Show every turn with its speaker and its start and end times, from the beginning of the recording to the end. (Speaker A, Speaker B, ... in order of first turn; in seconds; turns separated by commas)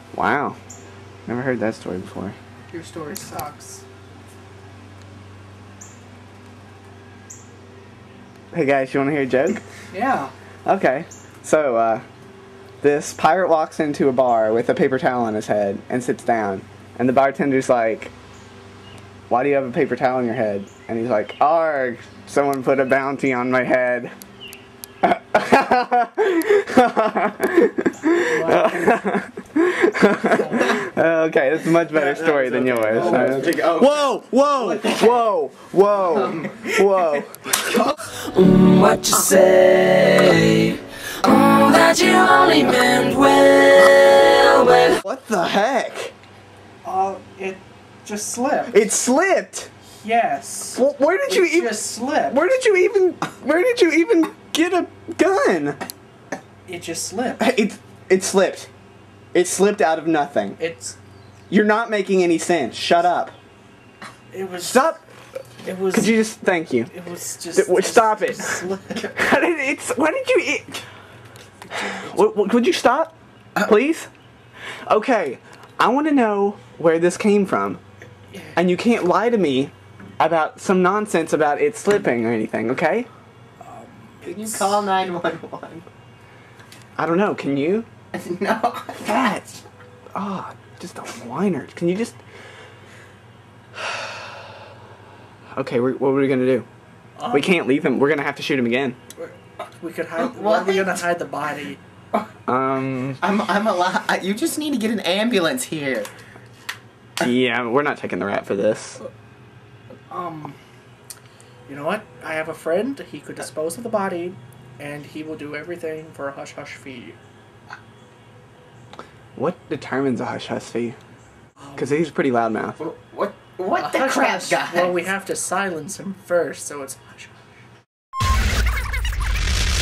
Speaker A: 0.1-0.6, Speaker A: 1.3-2.4, Speaker B: 2.7-3.8, Speaker A: 8.5-9.6, Speaker B: 9.9-10.3, Speaker A: 10.7-12.1, Speaker A: 12.8-18.1, Speaker A: 19.3-24.1, Speaker A: 25.0-37.5, Speaker B: 28.2-29.0, Speaker B: 30.2-30.8, Speaker C: 31.9-35.2, Speaker B: 33.0-33.4, Speaker C: 36.1-36.7, Speaker D: 38.2-45.0, Speaker A: 45.0-46.1, Speaker B: 46.8-48.9, Speaker A: 48.7-49.7, Speaker B: 49.9-52.5, Speaker A: 50.7-55.8, Speaker B: 56.7-57.4, Speaker A: 57.4-58.7, Speaker A: 59.3-60.6, Speaker B: 60.6-61.0, Speaker A: 61.5-63.4, Speaker B: 64.3-65.0, Speaker A: 64.6-65.0, Speaker B: 65.6-66.1, Speaker A: 65.9-66.9, Speaker B: 66.9-69.1, Speaker A: 67.5-70.8, Speaker B: 71.7-72.1, Speaker A: 72.0-74.1, Speaker A: 74.9-77.8, Speaker B: 78.3-78.6, Speaker A: 78.6-83.1, Speaker B: 83.6-84.8, Speaker C: 84.2-85.8, Speaker A: 87.0-87.9, Speaker C: 88.1-89.2, Speaker A: 89.0-89.6, Speaker A: 90.2-92.2, Speaker A: 93.8-94.2, Speaker A: 95.5-96.7, Speaker B: 97.2-97.5, Speaker A: 97.3-99.0, Speaker B: 99.2-101.8, Speaker C: 100.2-101.0, Speaker A: 102.5-103.2, Speaker C: 103.2-106.1, Speaker A: 107.2-109.0, Speaker B: 110.1-110.6, Speaker B: 111.7-117.2, Speaker A: 119.4-121.0, Speaker B: 121.6-122.1, Speaker A: 121.8-122.8, Speaker C: 122.8-125.0, Speaker B: 123.8-127.4